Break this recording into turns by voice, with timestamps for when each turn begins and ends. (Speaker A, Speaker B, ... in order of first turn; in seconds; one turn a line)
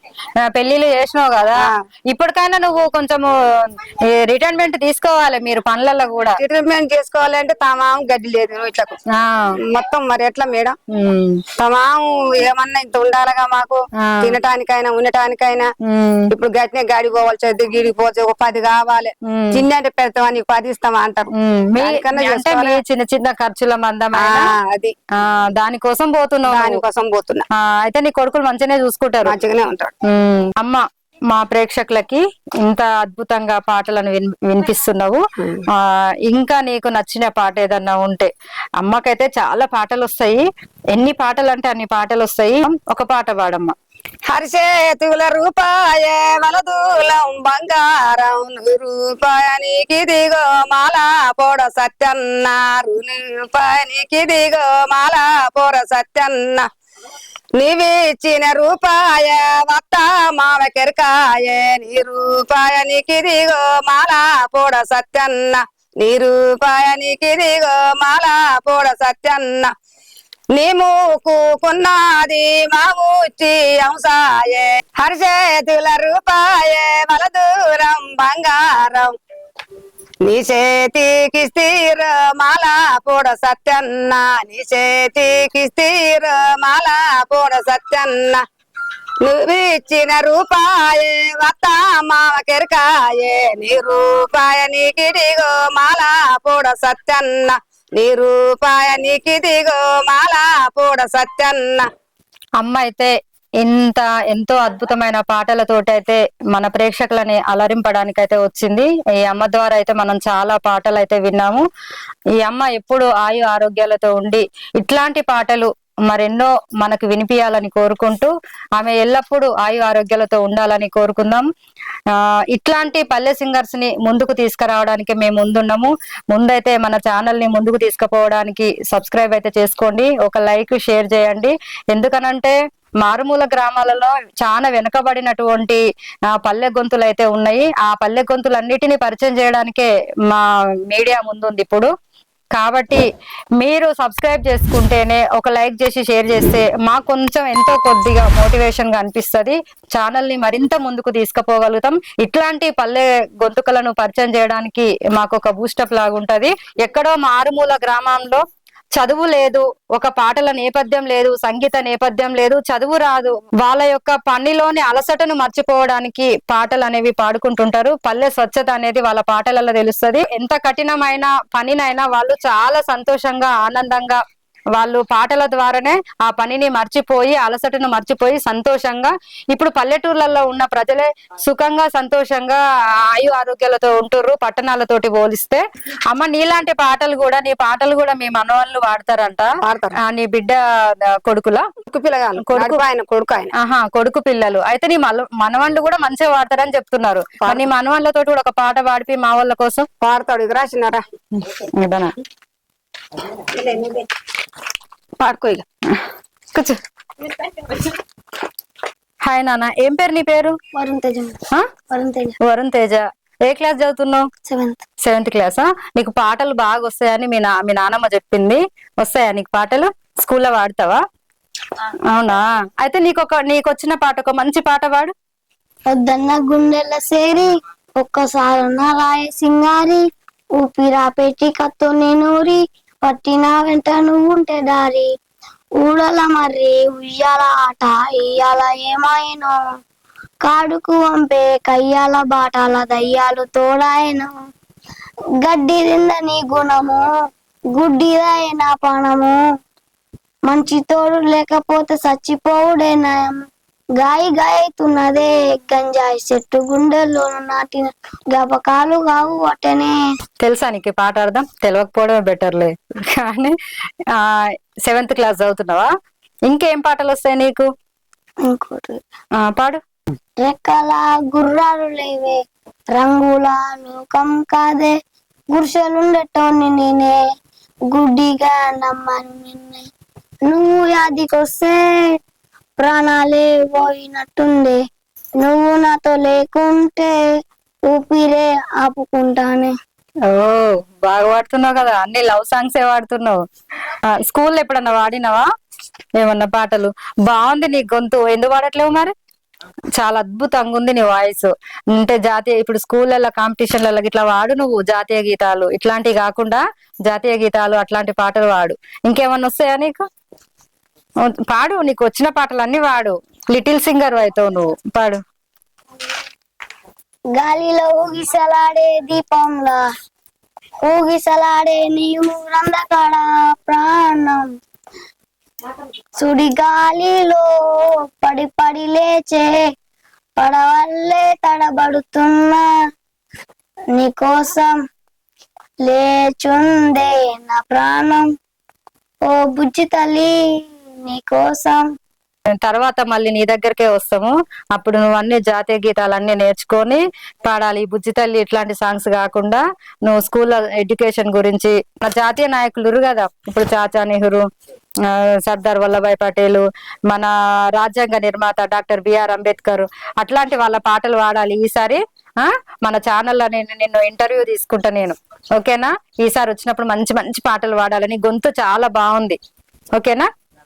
Speaker A: 0.5-3.3
Speaker A: 4.1-6.4
Speaker B: 6.4-9.0
Speaker A: 9.1-9.6
Speaker B: 9.6-10.8
Speaker A: 10.9-11.4
Speaker B: 11.6-15.7
Speaker A: 14.0-14.4
Speaker A: 15.8-16.3
Speaker B: 16.3-22.8
Speaker A: 19.3-19.6
Speaker A: 21.4-24.5
Speaker B: 24.2-24.9
Speaker A: 25.1-26.8
Speaker B: 26.5-27.4
Speaker A: 27.6-29.4
Speaker B: 29.2-29.9
Speaker A: 30.1-35.2
Speaker B: 35.4-35.6
Speaker A: 35.8-40.4
Speaker A: 40.9-43.7
Speaker B: 44.3-56.7
Speaker B: 57.6-69.7
Speaker B: 70.5-79.1
Speaker B: 80.2-88.4
Speaker B: 89.2-101.9
Speaker A: 102.6-111.6
Speaker A: 112.4-121.4
Speaker A: 122.1-135.8
Speaker A: 136.4-141.9
Speaker A: 142.6-143.1
Speaker A: 143.6-158.4
Speaker A: 158.9-174.2
Speaker A: 174.8-189.5
Speaker B: 189.6-190.0
Speaker A: 190.0-191.7
Speaker B: 191.8-193.5
Speaker A: 192.4-192.8
Speaker A: 193.6-199.9
Speaker B: 197.4-197.7
Speaker B: 200.0-201.0
Speaker A: 201.4-202.1
Speaker B: 203.3-204.1
Speaker B: 205.2-205.6
Speaker A: 205.9-206.8
Speaker A: 209.3-210.6
Speaker C: 210.7-211.4
Speaker C: 211.9-212.4
Speaker A: 212.4-214.3
Speaker C: 214.4-214.8
Speaker A: 215.1-221.0
Speaker A: 222.1-225.1
Speaker C: 225.9-230.1
Speaker C: 230.6-235.1
Speaker C: 235.8-239.6
Speaker C: 240.4-244.3
Speaker C: 245.4-247.1
Speaker C: 247.8-249.4
Speaker C: 250.5-253.4
Speaker C: 254.0-259.9
Speaker A: 260.4-263.6
Speaker A: 264.1-265.9
Speaker A: 266.5-267.7
Speaker C: 268.4-269.0
Speaker A: 269.4-269.8
Speaker C: 270.4-272.4
Speaker C: 272.9-275.0
Speaker C: 275.5-277.2
Speaker C: 277.9-279.9
Speaker C: 280.5-282.2
Speaker C: 282.8-284.8
Speaker C: 285.4-287.1
Speaker C: 287.9-289.7
Speaker A: 290.3-293.4
Speaker A: 294.1-295.4
Speaker A: 296.2-299.1
Speaker A: 299.9-310.0
Speaker A: 311.3-315.2
Speaker C: 317.4-319.9
Speaker C: 320.8-324.5
Speaker C: 326.2-329.6
Speaker C: 330.4-332.6
Speaker C: 333.9-334.8
Speaker C: 335.9-338.3
Speaker C: 339.2-340.3
Speaker C: 341.1-341.9
Speaker A: 342.5-354.4
Speaker A: 355.1-369.4
Speaker A: 370.0-370.3